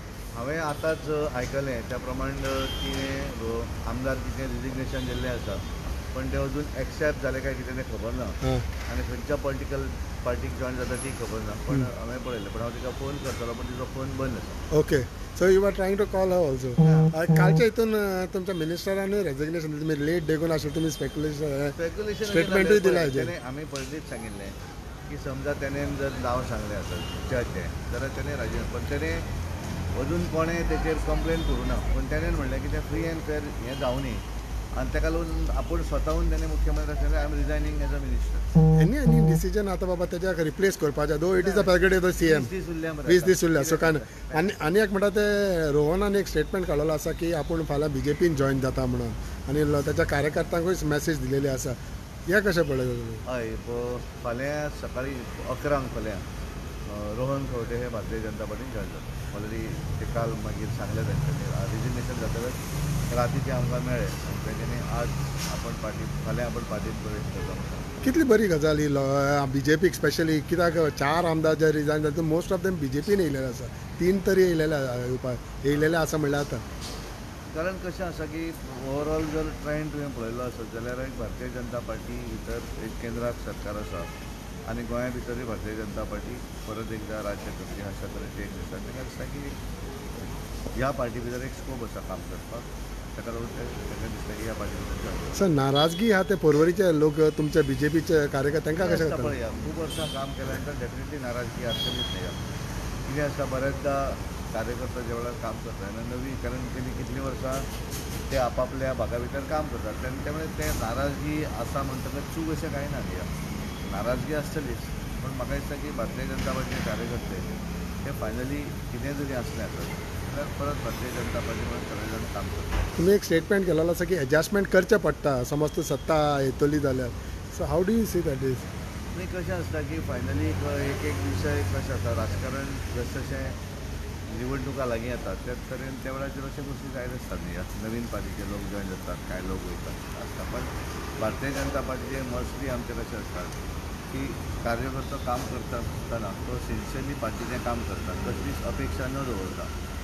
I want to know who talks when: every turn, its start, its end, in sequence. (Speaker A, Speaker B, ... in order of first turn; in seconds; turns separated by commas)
Speaker A: 0.3-14.6, Speaker B: 14.7-21.8, Speaker A: 16.8-17.1, Speaker A: 21.8-24.6, Speaker B: 22.3-23.3, Speaker A: 25.1-29.3, Speaker A: 29.9-38.5, Speaker B: 38.8-42.5, Speaker A: 41.4-44.7, Speaker B: 43.1-51.8, Speaker B: 52.3-53.2, Speaker A: 53.2-56.2, Speaker A: 56.9-67.9, Speaker B: 68.0-76.6, Speaker A: 77.5-84.1, Speaker A: 84.7-89.6, Speaker A: 90.7-95.5, Speaker B: 95.3-99.3, Speaker A: 98.8-102.4, Speaker A: 103.0-107.7, Speaker A: 108.3-113.3, Speaker A: 113.8-123.0, Speaker B: 123.0-128.7, Speaker A: 129.1-133.6, Speaker A: 134.3-149.7